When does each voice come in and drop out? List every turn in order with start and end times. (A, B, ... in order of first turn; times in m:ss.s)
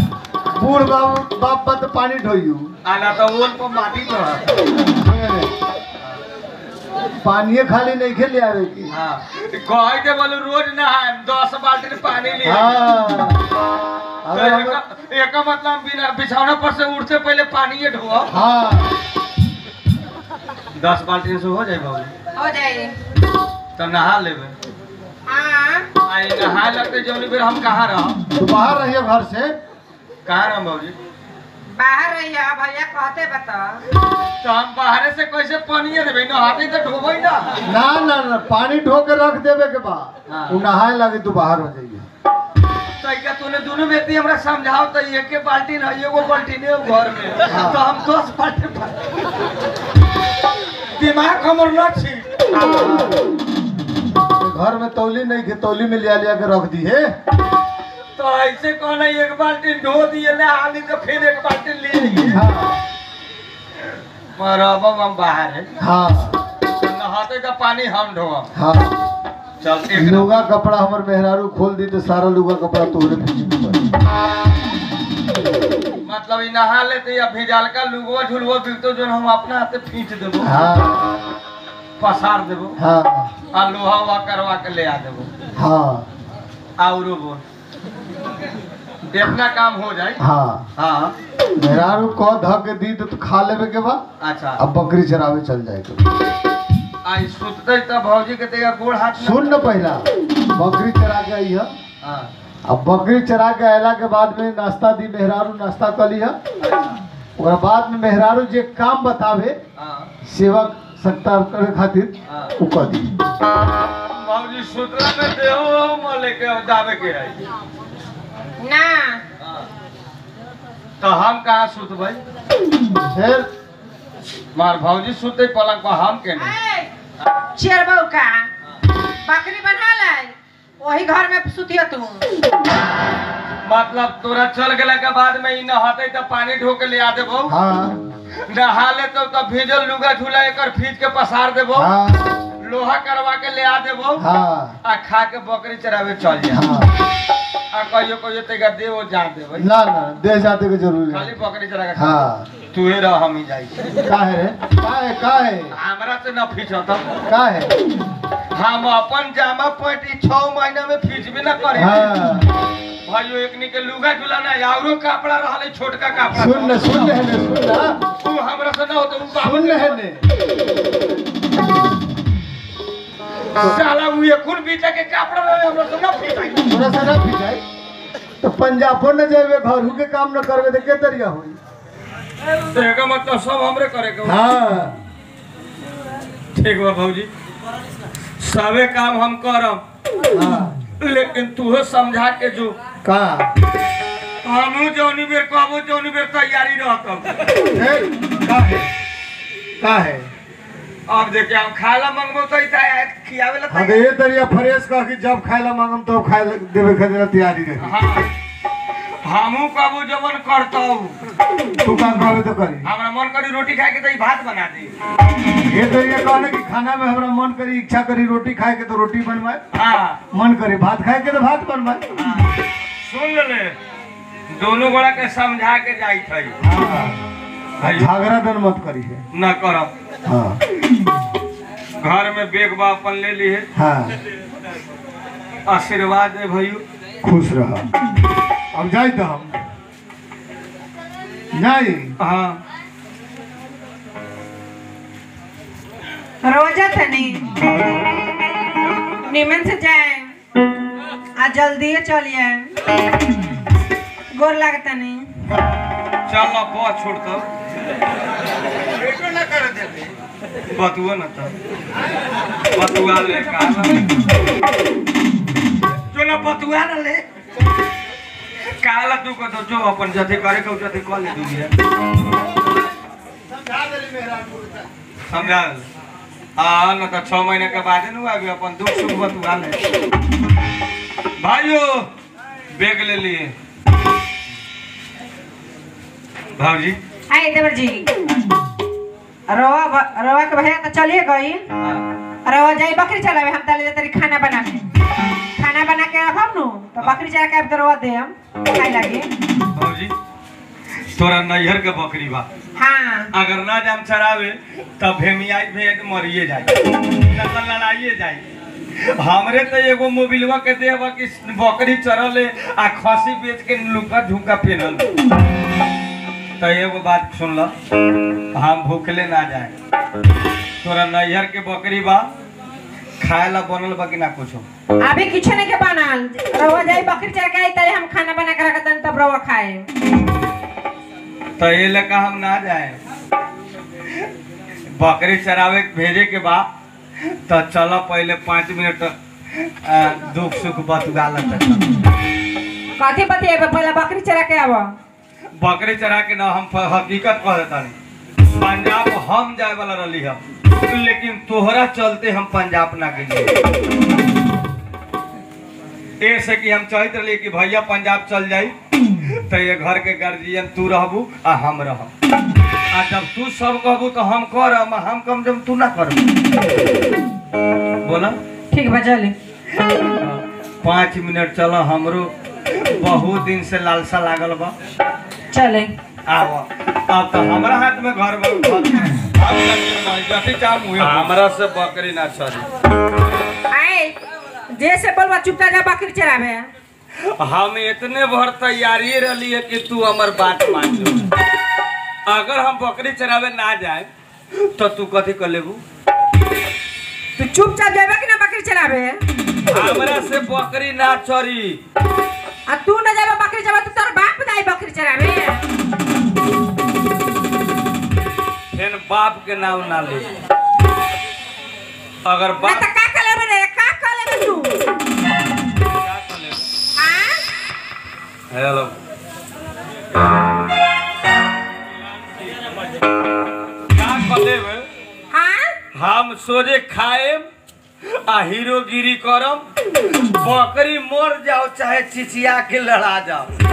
0:00.5-0:02.7 A
0:02.8-0:04.6 B
0:05.0-0:05.5 A
0:07.2-0:08.9 A
0:08.9-0:12.8 B
0:12.4-0:13.4 A
0:14.2-0:14.8 A
0:14.3-0:18.3 B
0:18.3-0:19.0 A
0:20.8-0:22.1 B
0:22.4-0:23.0 C
0:23.8-0:24.6 B
0:25.3-0:25.9 C
0:26.0-0:28.2 B
0:28.3-0:29.6 A
0:30.3-0:31.0 B
0:31.7-0:33.8 C
0:34.4-0:37.6 B
0:37.6-0:42.1 A
0:40.3-0:40.6 B
0:43.0-0:49.2 B
0:47.5-0:47.8 A
0:50.9-0:52.9 B
0:54.4-0:57.2 A
0:58.2-1:02.4 B
1:02.3-1:02.8 A
1:04.4-1:05.7 B
1:05.8-1:06.4 A
1:06.7-1:08.5 B
1:08.6-1:09.0 A
1:09.6-1:10.4 B
1:09.9-1:13.9 A
1:16.0-1:20.6 B
1:20.4-1:21.0 A
1:22.0-1:22.8 B
1:22.8-1:23.3 A
1:23.5-1:25.3 B
1:25.6-1:26.1 A
1:26.8-1:27.4 B
1:29.1-1:30.2 B
1:30.2-1:30.7 A
1:30.8-1:31.1 B
1:31.6-1:34.0 A
1:34.2-1:34.6 B
1:34.6-1:36.1 A
1:37.0-1:39.5 B
1:39.2-1:41.7 A
1:42.0-1:42.3 B
1:42.7-1:46.4 A
1:46.6-1:47.0 B
1:47.4-1:49.6 A
1:49.8-1:50.1 B
1:50.2-1:53.1 A
1:52.3-1:52.5 B
1:54.1-1:57.4 B
1:58.6-1:59.2 C
1:59.4-1:59.7 B
2:01.0-2:02.2 B
2:03.1-2:03.5 A
2:04.5-2:06.5 B
2:06.4-2:06.9 C
2:07.6-2:08.5 C
2:09.2-2:12.3 C
2:13.6-2:17.6 B
2:17.5-2:18.0 A
2:18.5-2:21.9 B
2:21.8-2:22.3 A
2:22.6-2:24.3 B
2:24.2-2:24.8 A
2:24.8-2:26.7 B
2:26.5-2:27.0 A
2:27.7-2:29.7 B
2:29.6-2:31.3 A
2:31.1-2:33.8 B
2:32.0-2:32.5 A
2:34.0-2:35.8 A
2:35.7-2:37.1 B
2:37.3-2:37.8 A
2:38.5-2:42.1 B
2:41.8-2:42.5 A
2:43.0-2:47.2 B
2:46.3-2:48.0 A
2:48.2-2:50.0 B
2:49.4-2:50.2 A
2:53.6-2:56.8 B
2:56.7-2:57.6 A
2:58.4-3:01.6 A
3:02.6-3:04.4 B
3:04.2-3:05.0 A
3:06.5-3:07.3 B
3:08.4-3:09.8 B
3:10.3-3:10.8 A
3:11.0-3:12.8 B
3:13.0-3:13.5 A
3:14.4-3:17.4 B
3:17.7-3:18.9 A
3:19.8-3:20.3 A
3:21.1-3:24.1 B
3:23.7-3:27.9 A
3:27.8-3:28.3 B
3:29.2-3:31.2 B
3:31.8-3:32.9 A
3:32.8-3:35.0 B
3:35.6-3:39.6 A
3:39.7-3:40.2 B
3:40.3-3:42.0 A
3:42.1-3:43.8 B
3:44.5-3:46.6 B
3:46.6-3:47.2 A
3:47.8-3:48.1 B
3:47.8-3:49.2 A
3:49.3-3:49.9 B
3:50.3-3:50.6 A
3:52.0-3:53.7 B
3:53.8-3:54.2 A
3:55.7-3:56.8 B
3:57.2-3:57.9 A
3:58.7-3:59.6 A
4:01.5-4:02.2 A
4:02.2-4:02.6 B
4:06.4-4:07.6 C
4:09.1-4:10.4 C
4:11.4-4:12.7 C
4:14.3-4:15.3 C
4:16.3-4:17.5 B
4:19.3-4:19.9 A
4:20.7-4:21.5 B
4:22.7-4:24.2 B
4:26.1-4:27.3 B
4:28.8-4:31.7 B
4:33.5-4:34.9 A
4:35.3-4:35.9 B
4:36.6-4:39.8 B
4:41.4-4:42.1 B
4:42.7-4:43.5 B
4:46.6-4:47.0 B
4:47.3-4:48.1 C
4:49.5-4:51.6 C
4:51.7-4:52.1 B
4:52.5-4:54.9 C
4:55.6-4:59.3 C
4:59.7-5:00.1 B
5:01.0-5:02.5 B
5:02.8-5:03.3 C
5:03.3-5:15.1 B
5:16.6-5:17.7 B
5:18.5-5:19.7 B
5:20.8-5:22.3 B
5:23.2-5:24.6 B
5:25.0-5:29.9 C
5:31.6-5:33.0 B
5:34.9-5:36.7 B
5:37.3-5:42.0 B
5:43.0-5:45.0 C
5:45.6-5:53.5 B
5:56.2-5:58.7 B
5:59.5-6:02.1 B
6:02.9-6:06.3 B
6:08.0-6:08.4 B
6:08.7-6:09.4 C
6:10.2-6:14.7 B
6:15.5-6:15.9 C
6:16.3-6:22.7 B
6:23.7-6:24.2 C
6:24.7-6:26.7 C
6:27.2-6:31.3 B
6:32.3-6:35.8 B
6:37.4-6:39.2 C
6:39.7-6:41.8 B
6:42.7-6:45.6 C
6:48.7-6:50.3 B
6:52.2-6:52.9 B
6:52.6-6:54.8 C
6:56.0-6:56.6 B
6:57.0-6:57.4 C
6:58.5-6:59.0 B
7:03.9-7:04.9 B
7:05.3-7:05.8 C
7:05.9-7:07.5 B
7:08.1-7:09.6 B
7:10.3-7:13.6 B